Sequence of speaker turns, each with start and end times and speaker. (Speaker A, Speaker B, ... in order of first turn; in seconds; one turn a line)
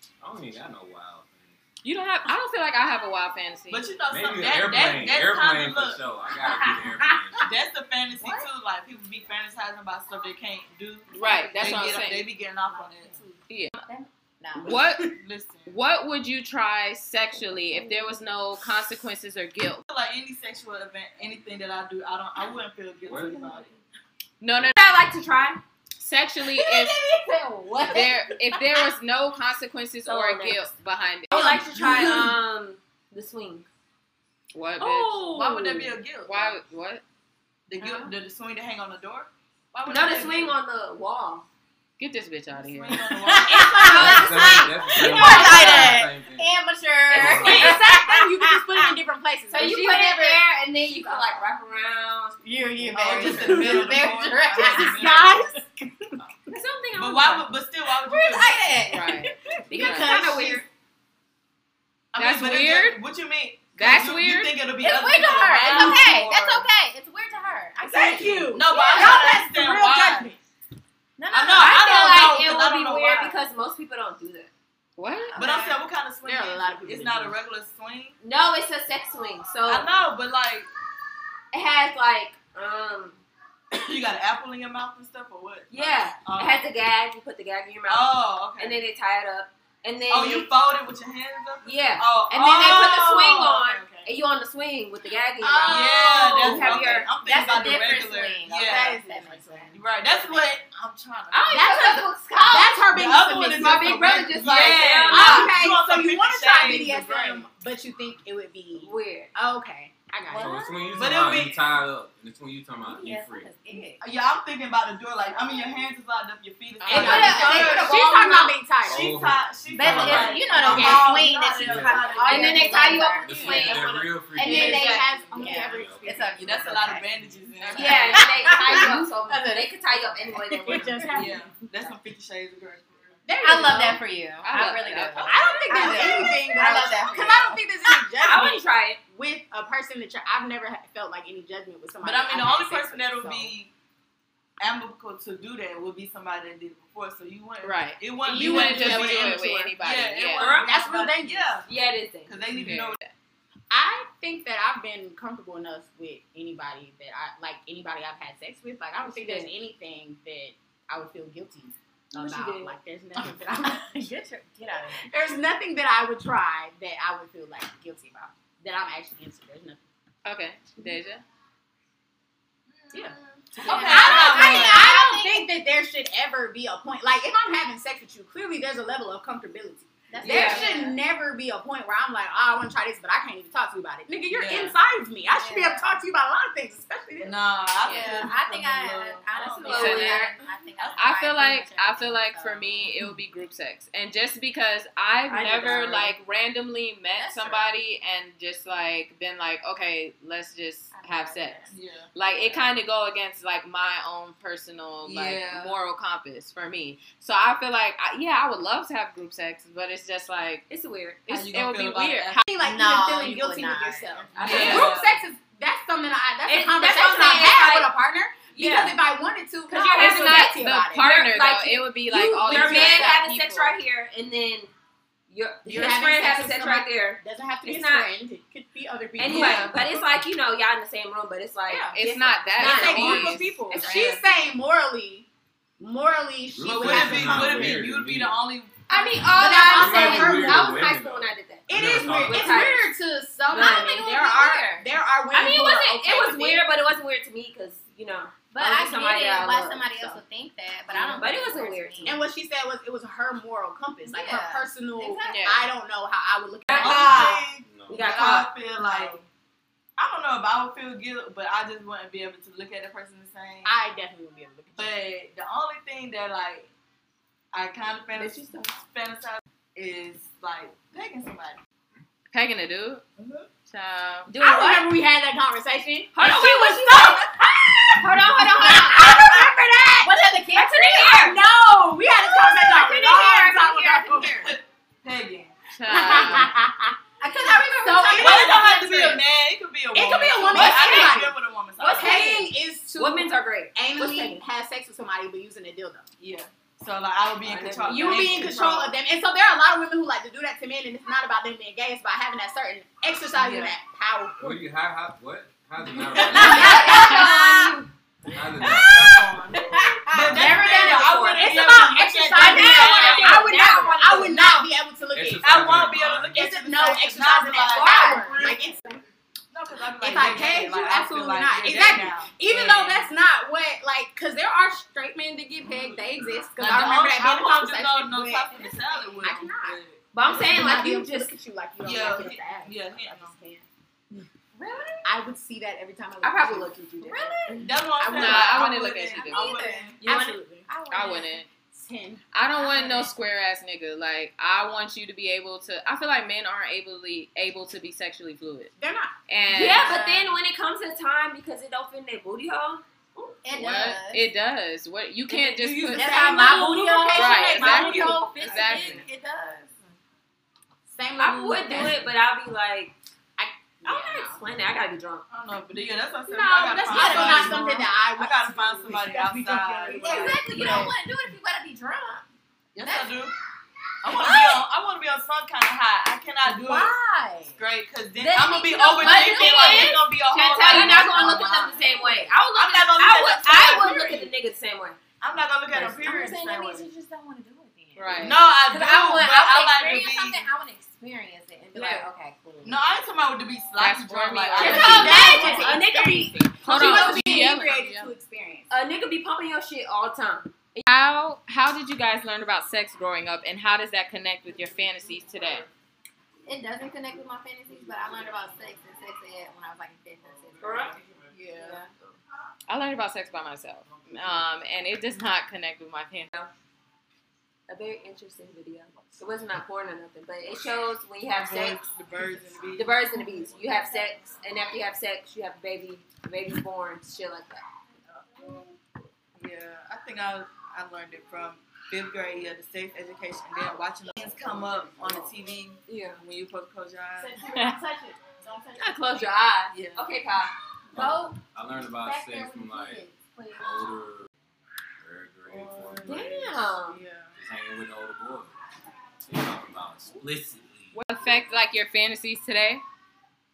Speaker A: 0.2-1.6
Speaker B: 1.8-3.9
Speaker C: 3.7-6.1
Speaker A: 4.1-7.5
Speaker D: 6.4-7.2
Speaker C: 7.4-13.3
Speaker E: 8.2-8.5
Speaker E: 11.1-12.0
Speaker B: 11.1-12.2
Speaker F: 11.4-11.9
Speaker E: 12.7-13.3
Speaker B: 13.5-13.8
Speaker E: 13.9-14.8
Speaker B: 14.6-19.9
Speaker C: 15.1-15.8
Speaker C: 19.9-23.8
Speaker A: 23.0-23.6
Speaker B: 24.4-24.8
Speaker F: 24.7-25.6
Speaker B: 26.0-27.0
Speaker D: 26.6-28.1
Speaker E: 27.1-28.1
Speaker B: 27.9-31.4
Speaker F: 30.1-30.7
Speaker F: 31.3-33.7
Speaker D: 31.3-32.3
Speaker B: 34.5-35.5
Speaker C: 34.8-36.6
Speaker F: 35.1-35.9
Speaker B: 36.2-37.0
Speaker C: 37.7-40.5
Speaker E: 37.8-38.1
Speaker F: 39.9-41.5
Speaker B: 42.0-43.0
Speaker C: 42.5-44.0
Speaker D: 43.2-46.1
Speaker E: 43.5-47.9
Speaker A: 43.9-47.8
Speaker D: 47.1-50.4
Speaker F: 49.5-52.4
Speaker D: 52.4-56.1
Speaker C: 52.9-55.4
Speaker E: 52.9-55.3
Speaker F: 56.5-57.5
Speaker C: 57.0-58.8
Speaker E: 58.0-59.2
Speaker B: 58.9-60.2
Speaker D: 59.6-60.6
Speaker F: 59.7-60.7
Speaker C: 62.1-66.7
Speaker B: 62.1-63.0
Speaker B: 63.8-64.6
Speaker E: 64.8-69.3
Speaker B: 65.1-66.0
Speaker D: 65.8-66.1
Speaker D: 67.8-70.4
Speaker C: 68.5-70.3
Speaker E: 71.2-71.8
Speaker C: 71.3-73.4
Speaker F: 71.3-74.5
Speaker B: 75.0-75.4
Speaker E: 75.3-75.7
Speaker C: 75.4-78.2
Speaker D: 76.2-77.4
Speaker F: 78.2-79.9
Speaker C: 79.7-80.7
Speaker F: 81.5-83.2
Speaker C: 83.7-86.6
Speaker F: 85.7-90.5
Speaker C: 87.9-88.8
Speaker C: 90.1-94.1
Speaker F: 91.6-97.1
Speaker D: 95.4-96.8
Speaker E: 95.5-99.8
Speaker C: 95.7-99.0
Speaker D: 98.5-99.8
Speaker C: 99.7-101.7
Speaker F: 101.3-102.7
Speaker E: 101.5-102.9
Speaker D: 101.5-104.2
Speaker C: 102.9-107.5
Speaker E: 103.6-105.0
Speaker F: 103.6-105.5
Speaker D: 105.1-110.5
Speaker F: 108.8-109.3
Speaker E: 110.3-111.2
Speaker A: 110.3-113.5
Speaker C: 110.9-111.8
Speaker E: 112.8-114.0
Speaker C: 114.0-118.2
Speaker E: 115.4-115.6
Speaker B: 116.8-117.5
Speaker E: 116.9-118.5
Speaker D: 116.9-119.1
Speaker A: 118.8-122.2
Speaker C: 118.9-122.9
Speaker E: 119.8-123.8
Speaker D: 120.5-121.3
Speaker D: 121.9-123.2
Speaker F: 122.2-125.1
Speaker A: 123.2-127.4
Speaker D: 124.4-126.5
Speaker E: 124.4-127.0
Speaker C: 126.4-128.3
Speaker E: 127.6-130.9
Speaker F: 127.7-131.4
Speaker D: 128.0-129.1
Speaker D: 130.4-131.5
Speaker C: 131.1-133.2
Speaker D: 133.2-134.0
Speaker E: 133.4-137.6
Speaker B: 134.4-135.5
Speaker D: 135.2-143.5
Speaker F: 138.2-139.0
Speaker C: 142.0-143.7
Speaker C: 144.6-151.7
Speaker B: 147.6-150.5
Speaker F: 148.3-149.7
Speaker F: 150.4-150.9
Speaker D: 150.6-151.6
Speaker F: 151.7-152.5
Speaker C: 152.2-153.0
Speaker B: 152.6-153.1
Speaker D: 153.7-169.8
Speaker F: 159.0-159.5
Speaker F: 162.1-162.8
Speaker E: 164.0-165.1
Speaker B: 170.2-171.2
Speaker C: 172.8-174.9
Speaker E: 173.6-175.5
Speaker D: 173.6-187.4
Speaker E: 180.1-181.0
Speaker F: 180.2-180.8
Speaker C: 184.3-184.8
Speaker E: 185.3-185.9
Speaker C: 187.2-190.2
Speaker E: 187.8-192.9
Speaker F: 189.6-190.3
Speaker B: 189.7-190.3
Speaker C: 190.8-191.1
Speaker B: 191.0-210.7
Speaker F: 195.3-196.1
Speaker E: 197.2-197.7
Speaker E: 200.9-201.7
Speaker C: 201.7-202.1
Speaker C: 205.0-205.8
Speaker F: 210.7-211.3
Speaker B: 211.3-212.4
Speaker C: 211.3-212.4
Speaker D: 212.5-221.1
Speaker E: 212.6-214.3
Speaker C: 214.3-215.2
Speaker F: 214.4-215.0
Speaker B: 214.5-214.8
Speaker F: 216.5-217.9
Speaker F: 218.5-219.0
Speaker F: 219.7-224.7
Speaker B: 219.9-223.4
Speaker D: 222.5-223.2
Speaker E: 222.5-223.2
Speaker F: 225.3-228.1
Speaker D: 225.6-229.9
Speaker F: 229.2-234.2
Speaker C: 229.3-230.0
Speaker B: 231.9-233.6
Speaker D: 232.6-235.3
Speaker D: 235.8-237.8
Speaker A: 236.5-238.4
Speaker C: 236.7-238.8
Speaker F: 238.9-242.8
Speaker E: 238.9-240.2
Speaker D: 239.3-240.8
Speaker A: 239.7-242.8
Speaker D: 241.7-246.7
Speaker E: 243.5-244.9
Speaker F: 243.5-244.0
Speaker F: 245.3-250.2
Speaker E: 248.5-252.2
Speaker F: 250.9-252.2
Speaker D: 252.0-257.5
Speaker E: 254.1-255.4
Speaker B: 255.3-255.7
Speaker F: 256.7-257.1
Speaker E: 256.8-257.2
Speaker C: 256.8-259.2
Speaker A: 257.6-258.2
Speaker F: 257.9-258.5
Speaker C: 260.0-263.8
Speaker D: 263.6-264.9
Speaker C: 264.8-266.7
Speaker C: 267.5-271.6
Speaker F: 268.1-268.8
Speaker B: 272.3-273.0
Speaker C: 273.2-273.5
Speaker B: 273.7-274.3
Speaker F: 274.3-274.9
Speaker D: 274.4-284.5
Speaker F: 276.1-277.3
Speaker F: 278.0-279.1
Speaker E: 278.0-279.5
Speaker F: 280.5-281.4
Speaker F: 282.4-284.5
Speaker C: 284.4-285.6
Speaker B: 285.7-286.6
Speaker D: 285.9-289.2
Speaker E: 287.2-288.9
Speaker C: 288.1-292.4
Speaker D: 289.9-296.1
Speaker F: 290.5-291.2
Speaker F: 291.8-294.4
Speaker C: 296.2-298.9
Speaker F: 297.4-298.5
Speaker D: 297.9-304.6
Speaker C: 303.3-303.8
Speaker A: 304.4-307.0
Speaker D: 305.9-307.8
Speaker E: 306.2-307.7
Speaker F: 306.3-307.8
Speaker A: 308.3-309.2
Speaker C: 308.6-313.5
Speaker D: 309.6-315.5
Speaker A: 310.2-310.6
Speaker E: 310.4-311.3
Speaker F: 310.7-311.5
Speaker F: 312.3-314.7
Speaker A: 315.1-316.4
Speaker C: 315.4-318.6
Speaker D: 316.3-319.0
Speaker F: 317.7-318.5
Speaker C: 319.5-323.0
Speaker D: 320.0-333.6
Speaker C: 326.6-330.0
Speaker E: 328.7-329.1
Speaker F: 330.1-331.3
Speaker C: 331.8-333.4
Speaker E: 334.5-335.1
Speaker D: 335.0-337.2
Speaker F: 336.2-337.6
Speaker E: 337.0-338.3
Speaker C: 337.6-340.0
Speaker D: 338.0-340.8
Speaker B: 338.1-339.6
Speaker E: 339.1-339.9
Speaker F: 340.0-340.4
Speaker E: 340.7-341.4
Speaker B: 340.9-341.5
Speaker D: 341.5-342.2
Speaker B: 342.3-348.7
Speaker E: 342.6-343.1
Speaker D: 348.8-349.1
Speaker B: 349.3-350.1
Speaker F: 349.5-352.8
Speaker E: 353.2-354.2
Speaker D: 353.4-354.2
Speaker B: 353.6-356.3
Speaker F: 355.3-357.1
Speaker E: 355.9-359.7
Speaker D: 355.9-359.0
Speaker B: 357.1-359.0
Speaker D: 360.9-362.1
Speaker F: 361.2-362.9
Speaker D: 363.4-364.4
Speaker F: 363.8-365.2
Speaker C: 365.3-370.4
Speaker E: 366.3-367.9
Speaker D: 366.6-370.9
Speaker E: 369.9-372.2
Speaker C: 372.8-373.3
Speaker E: 372.8-373.2
Speaker C: 374.0-376.9
Speaker E: 374.1-374.6
Speaker E: 376.5-377.5
Speaker C: 377.5-381.5
Speaker F: 378.2-385.0
Speaker E: 378.9-380.0
Speaker E: 380.7-382.3
Speaker D: 380.7-381.9
Speaker C: 382.5-384.3
Speaker C: 385.2-386.9
Speaker E: 385.7-392.8
Speaker B: 388.0-388.4
Speaker C: 388.2-390.4
Speaker F: 391.7-392.1
Speaker C: 392.6-395.4
Speaker B: 393.8-395.2
Speaker F: 394.6-397.6
Speaker E: 394.6-395.9
Speaker D: 394.6-398.7
Speaker B: 396.6-398.1
Speaker F: 398.7-400.8
Speaker B: 400.9-405.7
Speaker E: 406.4-411.0
Speaker F: 410.6-411.0
Speaker C: 411.3-411.8
Speaker E: 411.6-411.9
Speaker B: 412.7-416.3
Speaker F: 417.7-421.8
Speaker C: 421.3-423.0
Speaker F: 422.8-427.6
Speaker C: 429.4-437.4
Speaker F: 435.9-436.2
Speaker E: 437.2-437.8
Speaker D: 437.4-439.0
Speaker F: 438.8-440.5
Speaker C: 439.7-440.1
Speaker A: 440.9-443.0
Speaker E: 440.9-443.9
Speaker A: 443.6-444.3
Speaker A: 445.0-446.8
Speaker C: 445.5-446.2
Speaker F: 446.0-447.0
Speaker C: 446.9-447.3
Speaker A: 447.4-448.5
Speaker A: 449.2-451.0
Speaker B: 450.9-452.8